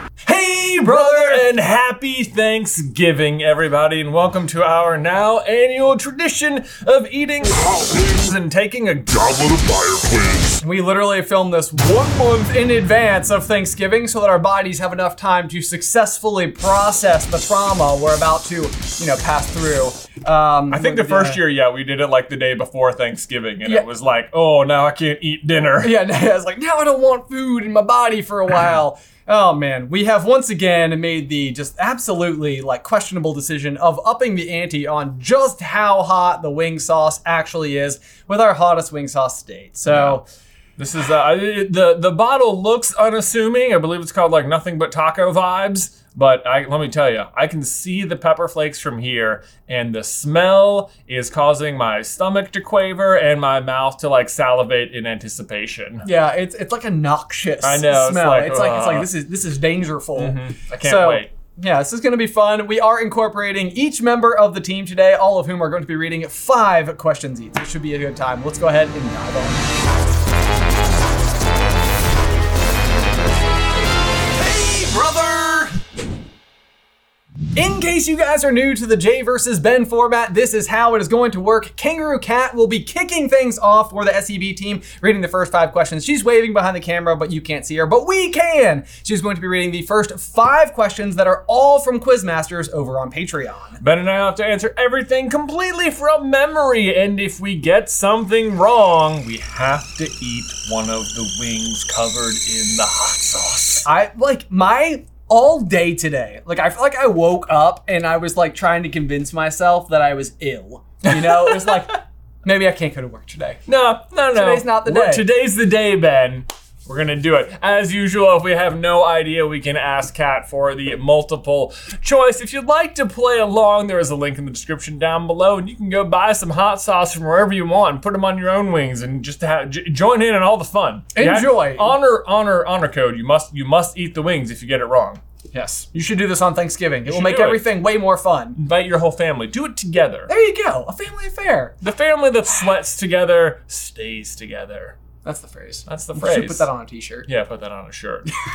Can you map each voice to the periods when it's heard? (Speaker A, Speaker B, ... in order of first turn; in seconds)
Speaker A: 0.3-1.5, 10.6-21.4, 25.6-40.2, 56.0-69.7, 74.7-75.7, 77.5-93.8, 103.8-113.6, 114.3-115.3, 131.1-132.0, 135.5-138.6, 140.3-141.8, 145.2-147.3
Speaker B: 0.7-10.4, 20.7-26.1, 39.9-40.2, 40.8-56.1, 57.6-59.1, 60.1-61.3, 74.4-75.7, 93.8-103.9, 111.0-112.0, 113.7-135.2, 137.1-137.9, 138.6-140.3, 141.8-145.0, 145.9-146.7, 147.3-148.3